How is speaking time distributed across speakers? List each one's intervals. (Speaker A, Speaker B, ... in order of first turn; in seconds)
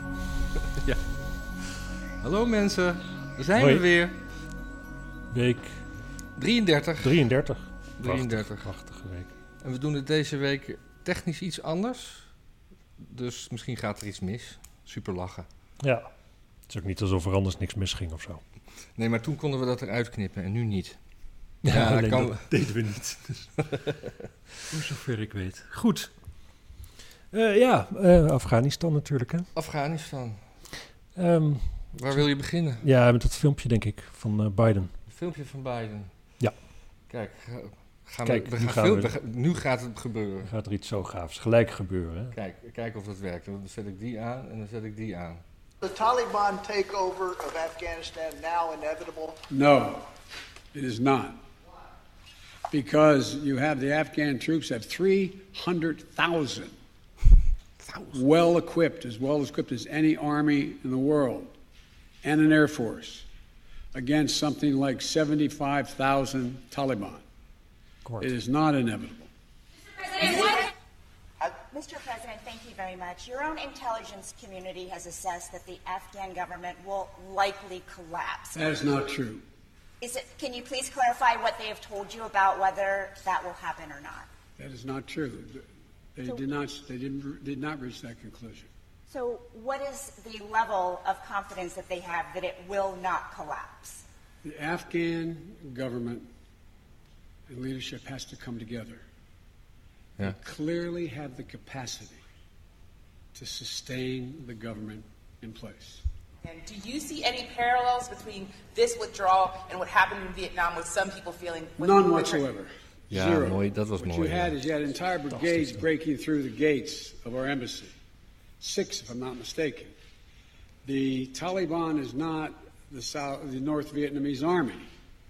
Speaker A: 0.7-1.0, 1.6-4.1, 6.3-7.2, 8.0-8.7, 9.6-12.3, 13.0-15.5, 18.9-21.0, 21.6-22.4, 23.6-24.1, 29.5-30.4, 31.9-32.8, 35.1-36.1, 37.1-40.5, 42.3-45.4, 57.8-58.1, 113.1-114.5
Speaker B: 3.5-3.9, 5.3-5.8, 7.0-9.3, 15.8-16.1, 16.7-18.4, 21.6-23.5, 24.7-26.1, 27.3-29.5, 31.1-32.2, 32.8-34.9, 38.2-39.1, 40.4-42.3, 68.0-68.3, 115.3-115.8
Speaker C: 45.8-49.4
Speaker D: 49.5-50.1, 50.7-51.4, 52.7-56.7, 58.1-61.5, 62.2-63.2, 63.9-67.2, 68.2-69.3, 78.5-79.4, 84.6-88.7, 94.4-96.3, 97.5-99.0, 100.2-102.2, 103.3-106.0, 111.8-117.9, 118.6-119.9, 120.8-124.9
Speaker E: 70.2-70.7, 71.4-79.1, 80.0-84.3, 89.1-94.0
Speaker F: 106.4-112.5